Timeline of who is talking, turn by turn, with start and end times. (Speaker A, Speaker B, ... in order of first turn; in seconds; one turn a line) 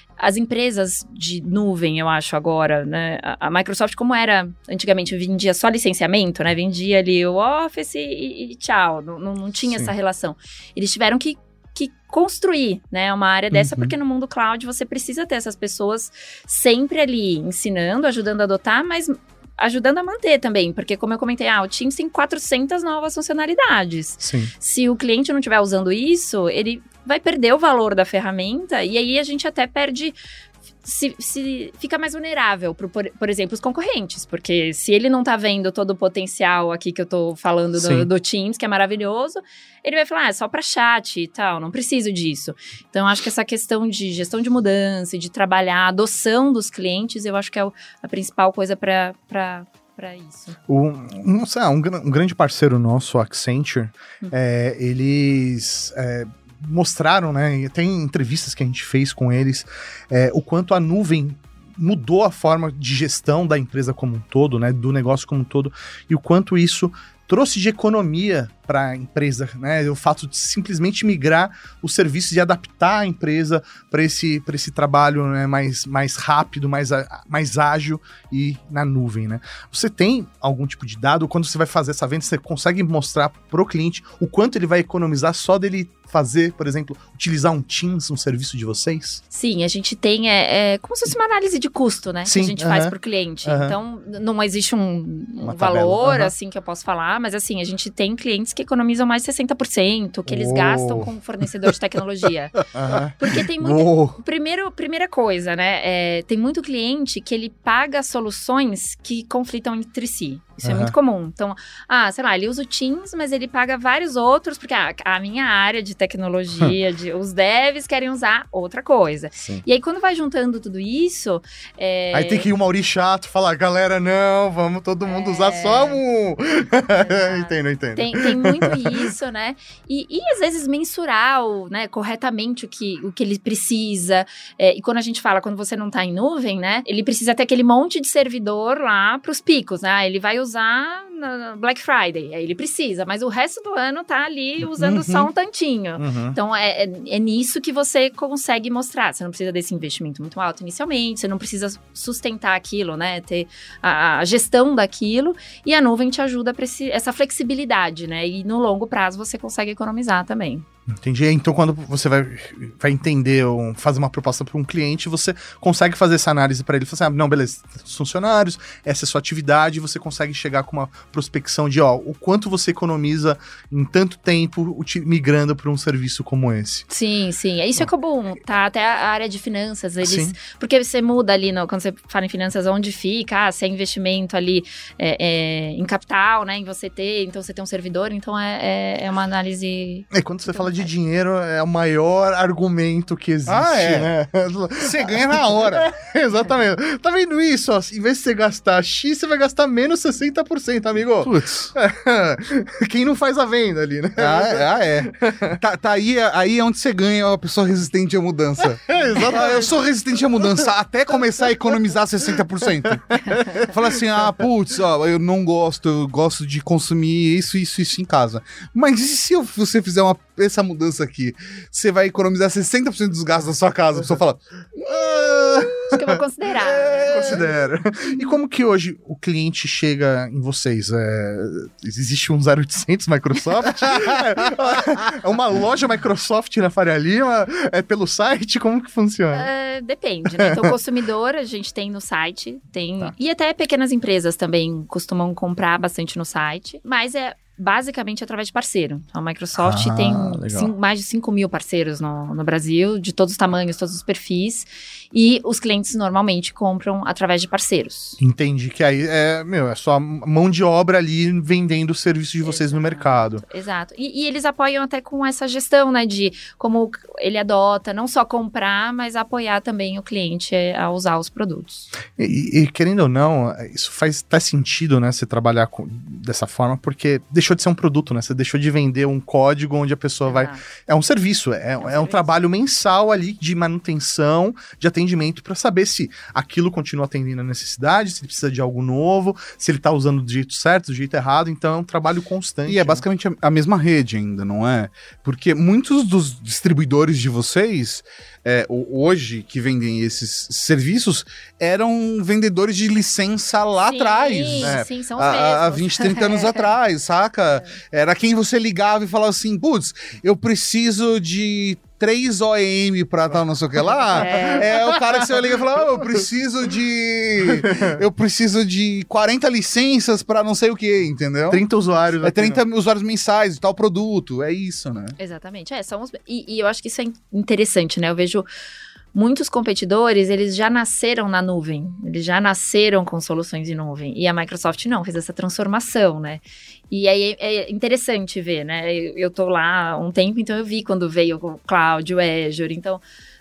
Speaker A: 0.2-30.2
Speaker B: 13.5-13.9
Speaker C: 24.2-24.5
Speaker A: 30.8-50.6
Speaker C: 37.8-38.1
Speaker C: 50.7-89.2
Speaker A: 89.3-122.5
Speaker C: 92.2-93.8
Speaker C: 95.4-96.3
Speaker C: 100.3-101.1
Speaker C: 102.7-104.2
Speaker C: 110.6-110.9
Speaker C: 119.3-119.6
Speaker C: 122.1-128.9
Speaker A: 125.0-126.0
Speaker A: 127.0-160.7
Speaker B: 144.8-145.3
Speaker C: 146.0-146.4
Speaker C: 160.9-176.8
Speaker A: 176.9-190.7
Speaker C: 180.0-180.3
Speaker C: 190.1-205.6
Speaker B: 193.4-194.1
Speaker B: 194.8-195.9
Speaker B: 201.2-201.7
Speaker B: 204.2-226.0
Speaker C: 208.6-209.7
Speaker C: 213.1-213.7
Speaker C: 225.2-225.8
Speaker A: 225.9-227.4
Speaker B: 226.6-227.4
Speaker C: 227.0-239.5
Speaker A: 239.3-258.2
Speaker C: 240.4-240.7
Speaker C: 249.5-250.7
Speaker C: 258.2-263.4
Speaker A: 262.4-271.9
Speaker C: 272.2-293.0
Speaker A: 280.2-280.6
Speaker A: 281.8-282.3
Speaker B: 292.7-321.6
Speaker A: 303.8-306.7
Speaker C: 304.6-304.9
Speaker A: 314.1-314.8
Speaker C: 314.1-315.2
Speaker C: 317.5-317.9
Speaker C: 321.5-322.6
Speaker B: 322.2-325.1
Speaker A: 325.2-328.5
Speaker A: 329.1-343.0